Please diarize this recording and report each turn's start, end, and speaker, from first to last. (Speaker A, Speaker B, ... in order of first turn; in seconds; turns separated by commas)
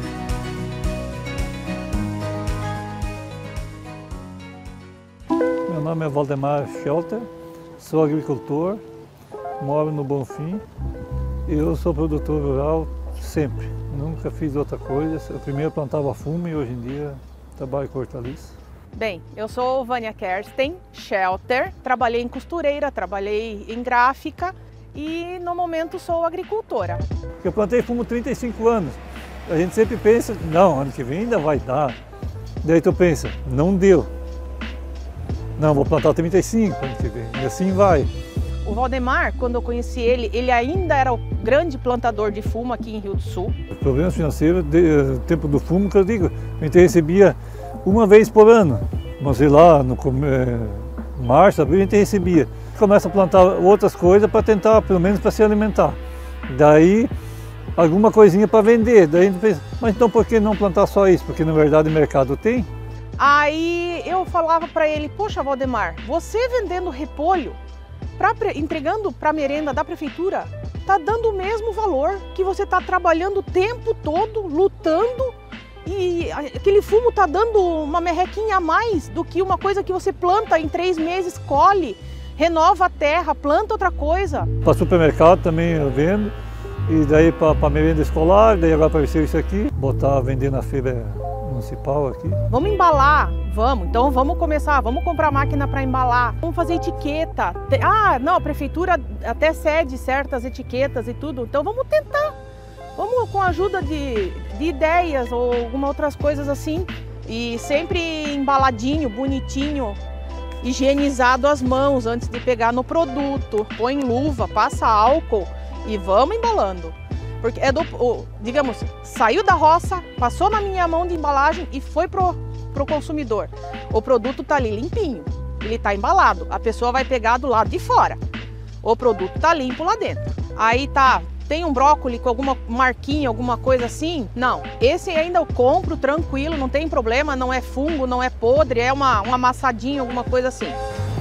Speaker A: 5.7-8.8, Speaker A: 9.6-10.6, Speaker A: 11.5-18.6, Speaker B: 18.9-27.0, Speaker A: 27.4-32.0, Speaker A: 32.6-34.1, Speaker A: 35.6-38.1, Speaker B: 38.6-43.6, Speaker A: 43.7-57.1, Speaker A: 57.8-62.7, Speaker B: 63.2-67.6, Speaker B: 68.2-84.5, Speaker A: 84.6-86.3, Speaker A: 86.9-92.4, Speaker B: 92.5-102.4, Speaker B: 103.0-110.0, Speaker B: 110.6-128.2, Speaker B: 128.8-140.8